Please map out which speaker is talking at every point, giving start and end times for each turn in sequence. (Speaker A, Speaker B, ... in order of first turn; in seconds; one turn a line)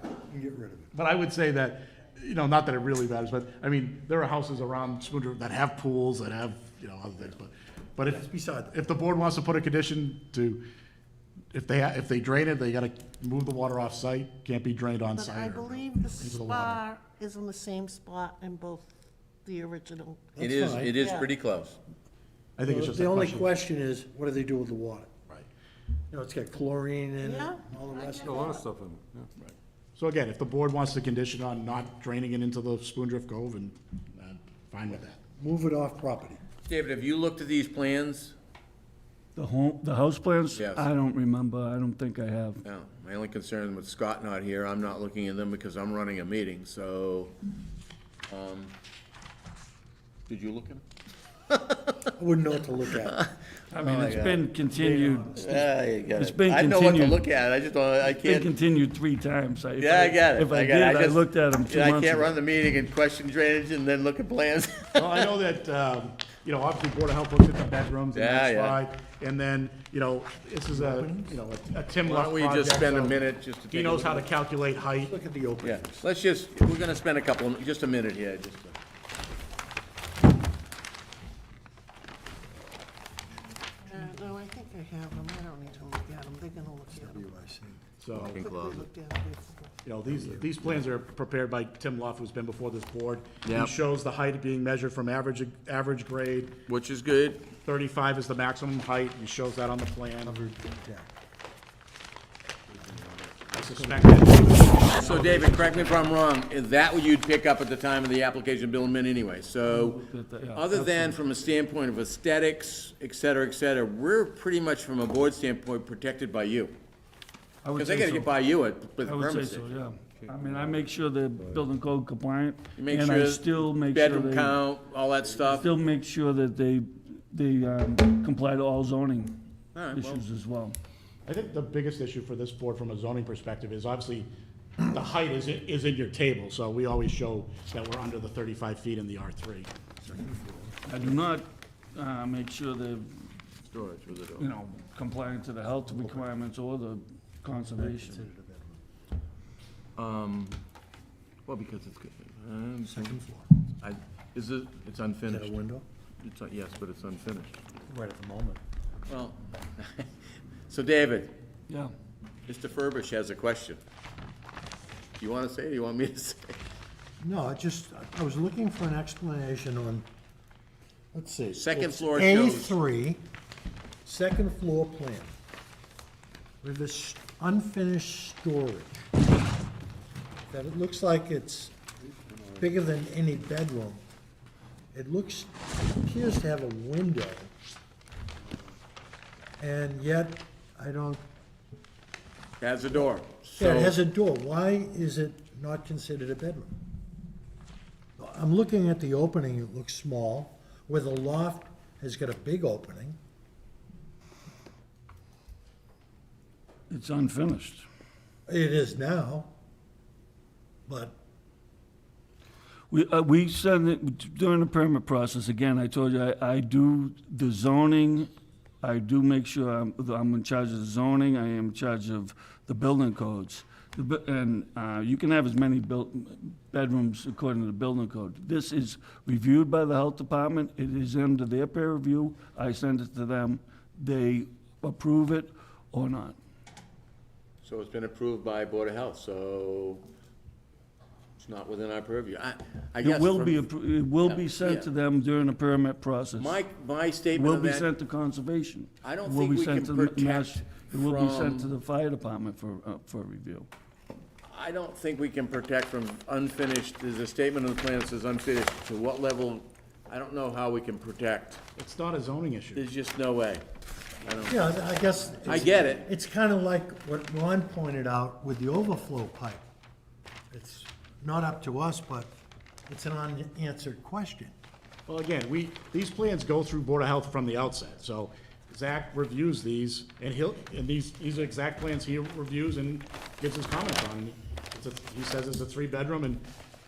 Speaker A: 0.3-0.9
Speaker B: 0.9-10.6
Speaker A: 8.1-8.8
Speaker B: 11.5-16.8
Speaker C: 15.1-18.9
Speaker C: 19.4-20.3
Speaker A: 20.4-20.9
Speaker D: 20.4-21.8
Speaker C: 21.0-21.3
Speaker B: 22.6-23.5
Speaker A: 22.6-25.1
Speaker A: 26.1-28.6
Speaker C: 27.2-28.7
Speaker E: 28.2-29.3
Speaker B: 29.9-35.2
Speaker A: 35.4-36.4
Speaker D: 36.6-38.4
Speaker F: 39.4-42.6
Speaker D: 40.5-40.9
Speaker D: 42.6-47.3
Speaker D: 48.3-48.7
Speaker D: 50.3-50.8
Speaker A: 52.1-53.2
Speaker D: 53.0-54.5
Speaker F: 53.7-57.2
Speaker A: 54.7-55.3
Speaker D: 55.3-58.5
Speaker F: 58.1-62.4
Speaker D: 59.8-65.3
Speaker B: 64.9-75.2
Speaker D: 68.1-68.8
Speaker A: 70.7-71.4
Speaker D: 72.0-74.3
Speaker A: 74.9-76.0
Speaker D: 75.6-78.8
Speaker C: 83.8-87.2
Speaker A: 86.9-87.8
Speaker B: 88.0-88.5
Speaker D: 88.1-88.9
Speaker C: 88.3-89.7
Speaker B: 89.8-96.6
Speaker D: 93.4-93.7
Speaker D: 96.7-97.5
Speaker B: 97.6-100.3
Speaker A: 100.2-101.1
Speaker E: 102.8-103.4
Speaker B: 103.5-106.1
Speaker D: 104.9-116.8
Speaker F: 109.7-111.2
Speaker F: 117.6-118.3
Speaker D: 117.8-119.7
Speaker F: 119.0-124.6
Speaker E: 120.3-120.8
Speaker D: 122.8-125.7
Speaker F: 125.5-129.4
Speaker D: 129.7-130.2
Speaker F: 129.9-130.8
Speaker B: 131.2-134.3
Speaker B: 134.9-139.7
Speaker A: 140.0-140.8
Speaker F: 140.9-143.3
Speaker D: 143.7-144.5
Speaker F: 144.4-148.2
Speaker A: 145.9-146.3
Speaker A: 147.7-148.8
Speaker D: 149.9-150.6
Speaker D: 151.4-153.1
Speaker A: 152.8-153.5
Speaker D: 153.8-155.6
Speaker A: 155.3-155.8
Speaker D: 156.2-157.6
Speaker A: 157.9-158.6
Speaker D: 159.1-160.1
Speaker D: 160.7-161.3
Speaker F: 161.7-161.9
Speaker D: 162.5-163.8
Speaker D: 165.2-166.6
Speaker A: 167.2-170.1
Speaker A: 171.1-173.2
Speaker D: 171.5-172.8
Speaker A: 174.0-175.3
Speaker A: 176.6-179.0
Speaker A: 180.5-181.8
Speaker A: 182.5-184.0
Speaker A: 184.9-187.5
Speaker A: 189.6-191.2
Speaker D: 192.6-194.0
Speaker A: 193.6-196.7
Speaker A: 198.2-203.2
Speaker F: 206.9-207.8
Speaker A: 208.5-209.5
Speaker A: 210.9-211.1
Speaker F: 212.9-218.3
Speaker F: 218.8-236.4
Speaker D: 237.6-240.0
Speaker D: 241.4-243.7
Speaker F: 243.0-246.6
Speaker D: 244.2-244.9
Speaker D: 246.4-247.9
Speaker F: 247.3-253.7
Speaker D: 249.0-251.7
Speaker D: 254.4-261.6
Speaker B: 261.8-262.8
Speaker D: 262.8-263.6
Speaker D: 264.2-264.6
Speaker A: 264.4-269.6
Speaker D: 265.4-266.1
Speaker A: 270.5-272.3
Speaker A: 272.9-274.5
Speaker B: 275.1-286.4